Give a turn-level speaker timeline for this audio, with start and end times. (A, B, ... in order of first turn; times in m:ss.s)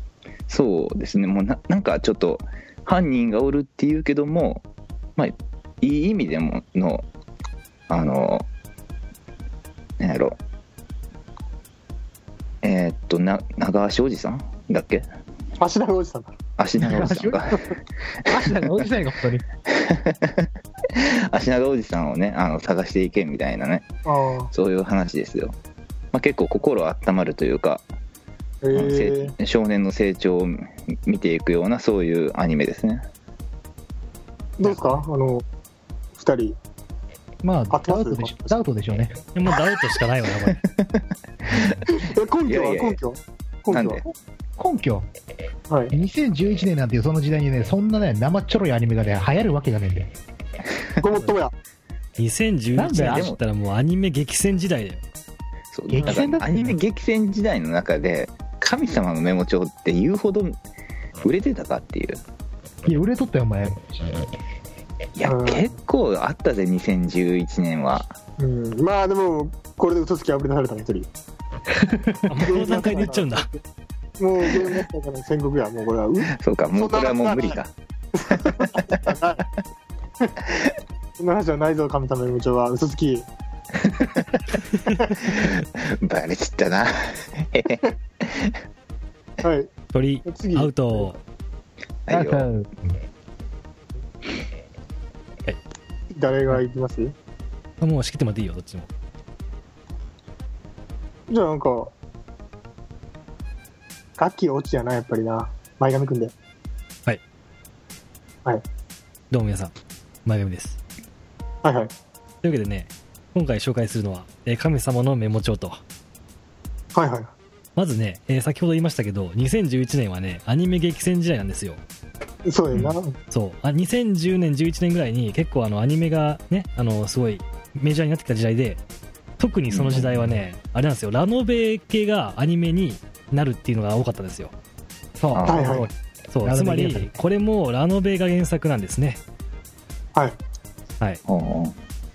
0:00.5-0:04.6 A
0:05.2-0:07.0 A
0:07.9-0:08.5 A
0:10.0-0:10.4 A
0:12.6-0:15.1 A
0:15.6-0:16.3 B
0:16.6-0:17.7 A
0:16.8-0:17.5 C
0:18.2-0:18.5 A
0:18.3-0:19.4 C
0:19.7-0:23.9 A
0:24.0-0:24.5 B
0:24.5-0:25.5 A
0:26.1-0:27.8 A
0:28.6-0:29.3 B
0:28.7-0:33.0 A
0:34.6-0:35.4 B
0:36.2-0:36.6 B
0:37.4-0:39.2 C
0:37.7-0:38.6 B
0:39.3-0:40.6 D
0:40.5-0:43.0 A
0:41.9-0:44.0 B
0:43.7-0:44.0 A
0:44.6-0:45.1 C
0:45.9-0:50.1 C
0:51.0-0:51.5 B
0:52.2-0:55.0 D
0:52.8-0:53.3 C
0:53.0-0:53.4 A
0:55.7-1:00.6 A
0:55.9-0:56.7 C
1:01.2-1:02.2 A
1:02.8-1:04.0 C
1:05.2-1:08.1 A
1:05.2-1:05.7 B
1:08.4-1:11.1 B
1:11.8-1:12.2 C
1:12.3-1:13.5 D
1:12.4-1:13.6 B
1:14.2-1:17.6 B
1:16.3-1:17.7 A
1:18.2-1:19.4 B
1:21.2-1:23.3 B
1:25.2-1:28.6 A
1:29.4-1:29.7 B
1:29.9-1:31.2 D
1:30.2-1:31.1 B
1:32.1-1:32.5 A
1:32.1-1:32.9 C
1:36.1-1:37.1 B
1:37.8-1:38.9 D
1:41.3-1:41.9 B
1:44.2-1:46.3 B
1:49.3-1:49.7 D
1:50.2-1:50.8 D
1:51.6-1:51.9 B
1:52.4-1:55.8 D
1:56.9-1:57.3 B
1:57.8-2:01.8 D
2:02.4-2:03.2 B
2:03.3-2:08.8 D
2:09.4-2:14.5 D
2:09.7-2:10.0 A
2:15.2-2:15.9 C
2:15.3-2:15.7 A
2:15.3-2:19.2 D
2:15.4-2:15.9 B
2:16.4-2:17.1 C
2:21.3-2:21.8 A